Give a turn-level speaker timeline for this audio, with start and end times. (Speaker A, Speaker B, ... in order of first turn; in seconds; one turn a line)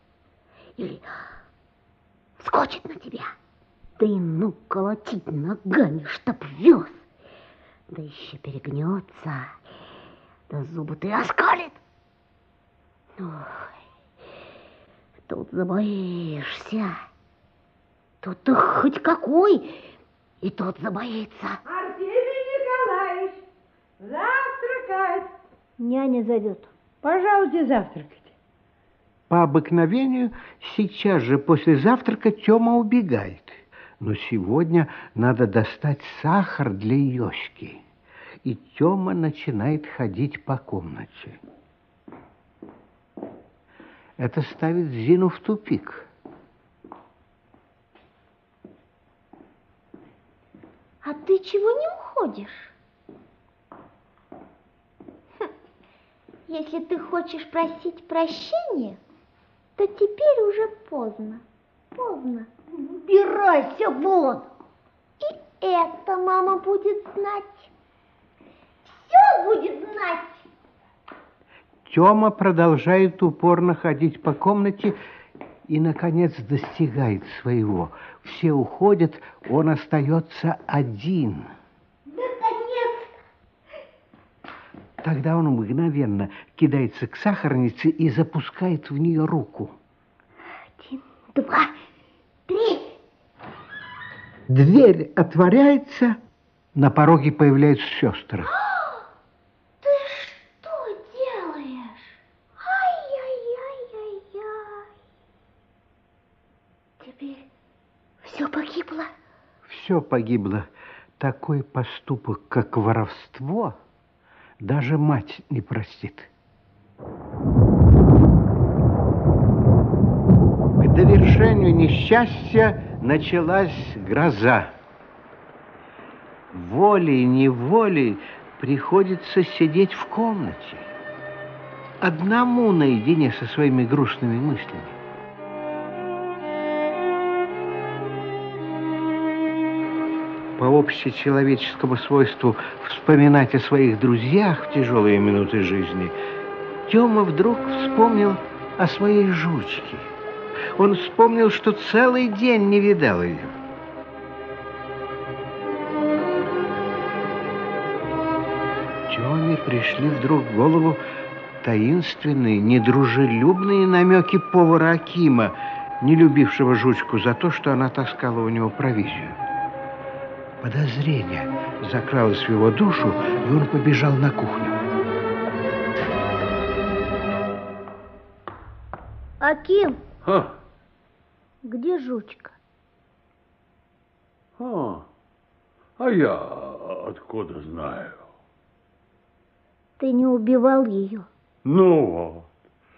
Speaker A: 0.8-1.2
Speaker A: 2.4-3.3
Speaker A: 4.0-7.1
Speaker A: 7.9-9.6
Speaker A: 10.5-11.8
Speaker A: 13.2-13.7
Speaker A: 15.3-17.0
Speaker A: 18.2-19.9
Speaker A: 20.4-21.6
Speaker B: 21.6-23.4
Speaker B: 24.0-25.3
Speaker C: 25.8-26.7
Speaker B: 27.0-28.3
Speaker D: 29.3-37.8
Speaker D: 38.4-41.4
Speaker D: 44.2-46.1
Speaker C: 51.0-52.7
Speaker C: 56.5-59.0
Speaker C: 59.8-61.4
Speaker C: 62.0-62.5
Speaker A: 63.1-63.6
Speaker C: 63.7-64.4
Speaker C: 65.2-67.7
Speaker C: 68.9-70.4
Speaker D: 71.9-75.0
Speaker D: 75.7-81.5
Speaker C: 82.1-83.1
Speaker D: 85.0-89.8
Speaker C: 90.8-91.7
Speaker C: 92.5-92.9
Speaker D: 94.5-96.2
Speaker D: 96.7-98.5
Speaker C: 98.5-99.0
Speaker C: 99.8-104.9
Speaker C: 107.0-107.5
Speaker C: 108.2-109.1
Speaker D: 109.6-113.8
Speaker D: 114.6-116.3
Speaker D: 120.8-124.8
Speaker D: 126.5-130.9
Speaker D: 132.0-135.0
Speaker D: 140.6-146.2
Speaker D: 146.9-150.1
Speaker D: 150.8-153.6
Speaker D: 159.1-161.0
Speaker D: 161.6-169.4
Speaker D: 170.6-174.8
Speaker C: 179.4-180.0
Speaker E: 180.2-180.5
Speaker C: 181.7-182.6
Speaker E: 184.6-185.1
Speaker E: 186.0-188.3
Speaker C: 190.0-191.3
Speaker E: 191.7-192.5